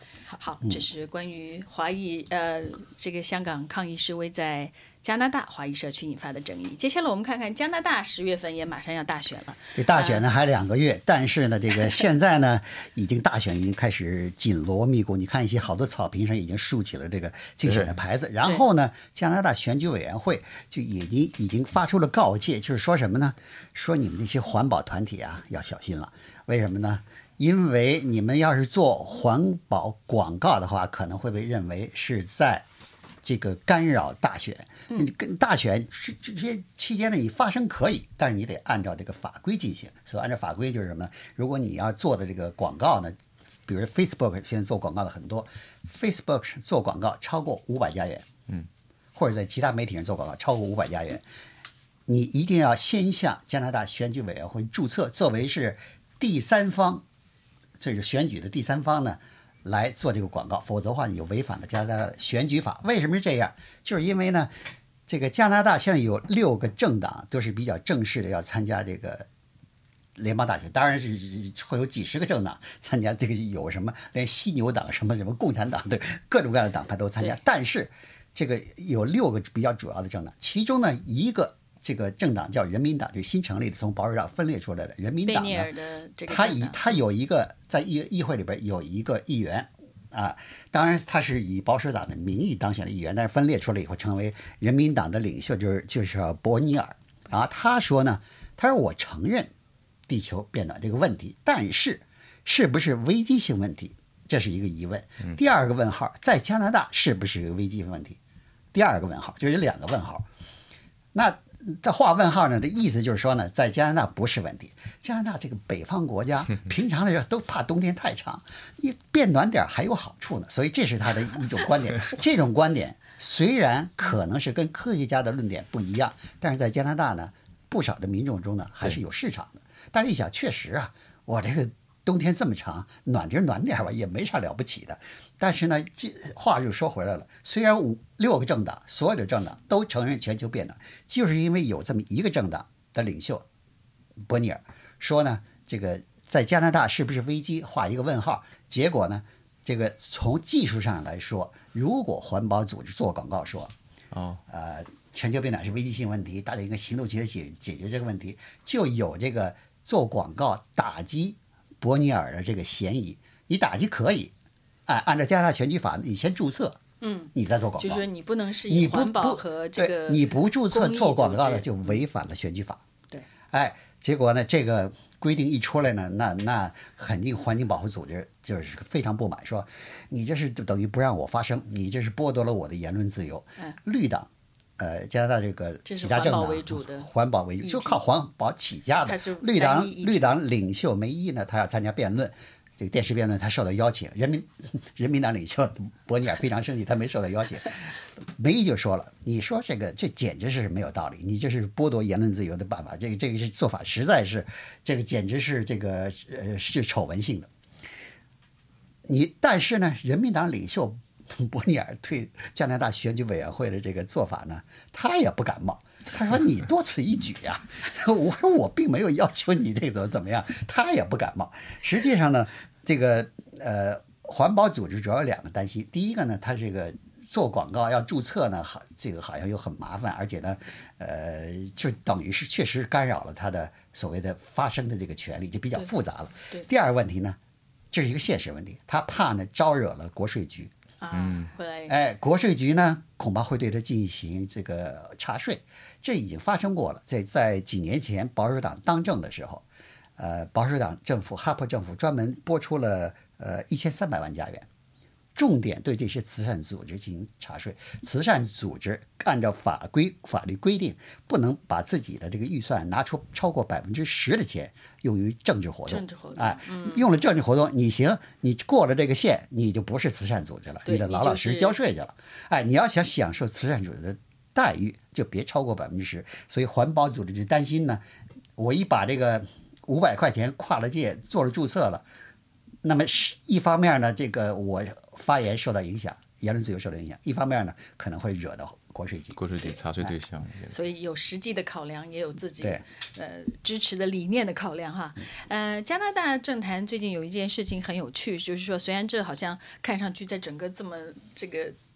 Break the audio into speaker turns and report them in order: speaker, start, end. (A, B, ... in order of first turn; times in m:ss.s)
0:00.3-0:10.3 A
0:09.8-0:32.6 B
0:17.7-0:17.9 C
0:33.2-0:43.1 B
0:43.7-0:48.3 B
0:49.1-0:51.2 B
0:52.1-0:57.0 B
0:57.8-1:04.5 B
1:05.1-1:09.3 B
1:10.2-1:25.7 B
1:25.2-1:27.0 A
1:26.3-1:39.5 B
1:40.1-1:48.2 B
1:48.7-1:50.2 B
1:51.1-2:23.4 B
2:24.2-2:33.7 B
2:34.1-2:34.4 C
2:34.5-2:44.3 B
2:44.9-2:46.8 B
2:47.0-2:52.0 A
2:47.3-2:48.0 B
2:48.7-2:52.8 B
2:53.5-3:27.5 B
3:05.8-3:07.1 A
3:07.6-3:08.0 A
3:09.0-3:10.4 A
3:29.0-3:57.4 B
3:57.9-4:00.7 B
4:01.0-4:01.9 A
4:01.1-4:01.5 C
4:01.9-4:09.6 B
4:10.2-4:14.7 B
4:15.4-4:38.0 B
4:25.9-4:27.1 A
4:30.8-4:31.8 A
4:38.6-4:42.0 B
4:42.8-4:49.4 B
4:49.4-4:50.8 C
4:50.7-5:01.8 A